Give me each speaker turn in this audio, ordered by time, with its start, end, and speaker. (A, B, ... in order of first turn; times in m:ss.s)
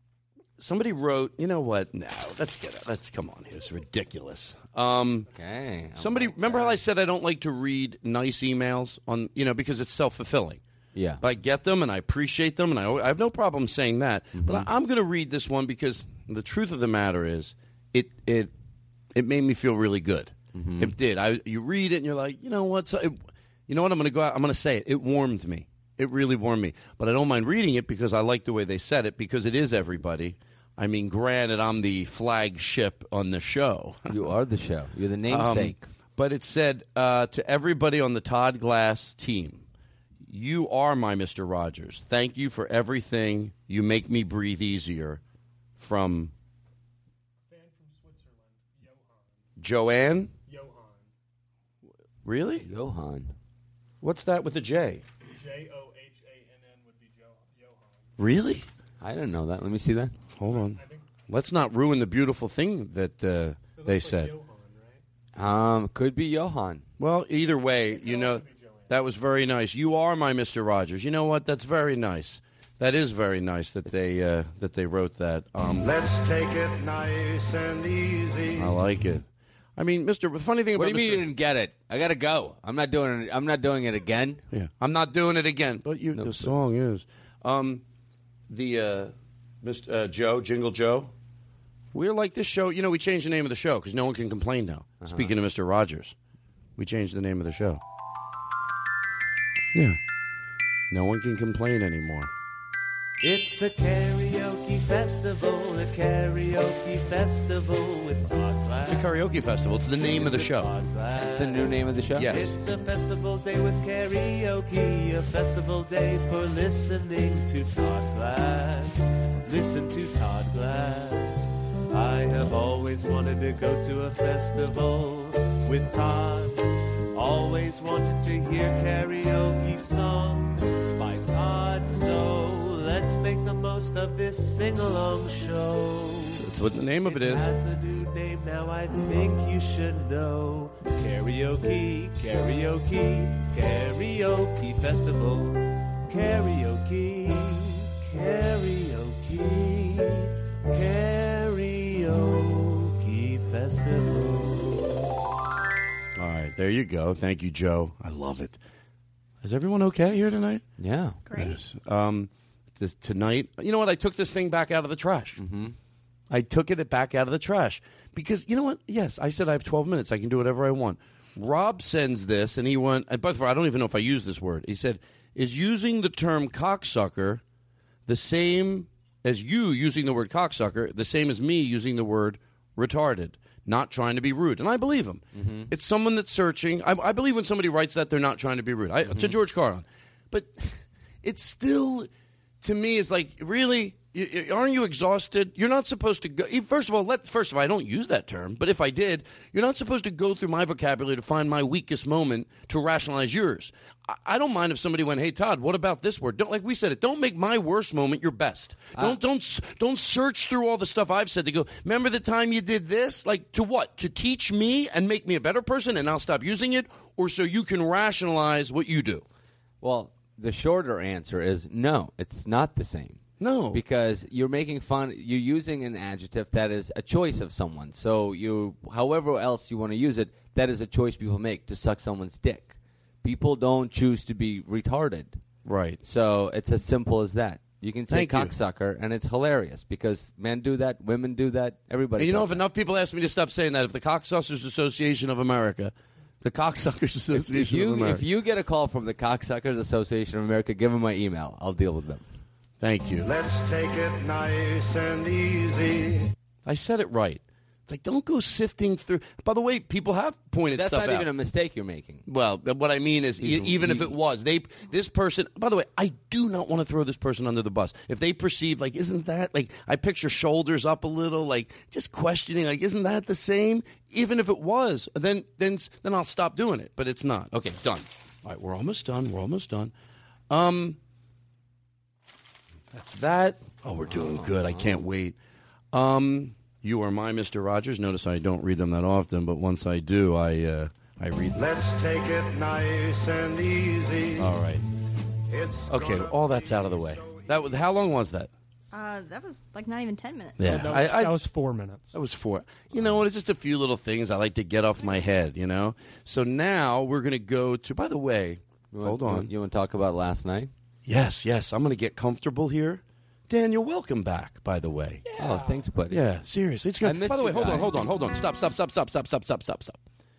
0:00.6-0:05.3 A
0:05.3-0:06.8 B
0:06.0-0:10.6 A
0:11.0-0:11.2 B
0:11.2-0:18.5 A
0:14.3-0:14.7 B
0:19.1-0:34.3 A
0:20.6-0:20.9 B
0:34.1-0:35.9 B
0:35.3-0:39.6 A
0:40.2-0:45.2 A
0:45.8-0:46.3 A
0:47.5-0:49.0 C
0:49.6-0:50.3 A
0:50.5-0:51.0 C
0:52.2-0:52.7 A
0:52.6-0:53.3 B
0:54.0-0:55.0 A
0:55.4-0:57.9 C
0:58.2-0:58.7 A
0:59.0-1:00.2 B
1:00.4-1:04.3 A
1:03.8-1:05.0 C
1:05.4-1:06.8 B
1:07.0-1:15.9 A
1:08.4-1:08.7 C
1:15.8-1:18.8 D
1:18.6-1:19.3 A
1:19.8-1:21.3 A
1:20.8-1:24.4 B
1:24.5-1:27.8 A
1:26.2-1:26.6 B
1:28.5-1:31.1 A
1:31.9-1:36.2 A
1:35.0-1:35.3 B
1:36.8-1:37.8 A
1:39.7-1:40.0 A
1:40.9-1:42.3 A
1:43.2-2:16.4 E
1:48.9-1:50.7 A
1:51.2-1:52.4 B
1:52.2-1:52.6 A
2:16.3-2:17.5 A
2:17.0-2:35.1 E
2:36.2-2:38.6 A
2:39.4-2:40.6 A
2:40.8-2:41.2 B
2:41.3-2:41.6 F
2:41.3-2:45.4 A
2:45.4-2:45.8 B
2:46.3-2:57.4 A
2:58.1-3:12.1 A
3:05.3-3:05.7 B
3:09.1-3:09.4 B
3:12.6-3:39.2 A
3:39.8-3:43.2 B
3:43.4-3:43.8 A
3:43.7-3:55.4 B
3:55.6-3:56.0 A
3:56.0-4:02.7 B
3:58.1-3:58.5 A
4:02.2-4:08.3 A
4:07.3-4:12.2 B
4:12.8-4:13.3 A
4:13.2-4:16.3 D
4:16.6-4:21.3 A
4:20.7-4:22.2 B
4:22.3-4:39.9 A
4:23.4-4:24.2 B
4:40.5-4:41.0 A
4:42.9-4:45.4 A
4:44.1-4:45.0 B
4:45.9-4:51.6 A
4:51.6-4:54.5 D
4:54.4-4:54.8 A
4:55.5-4:57.6 D
4:55.9-4:58.5 A
4:58.9-5:00.7 F
5:00.6-5:01.4 A
5:00.6-5:02.2 C
5:02.1-5:09.5 A
5:08.9-5:10.7 B
5:11.1-5:15.2 A
5:15.4-5:16.2 B
5:16.1-5:20.0 A
5:17.0-5:17.9 B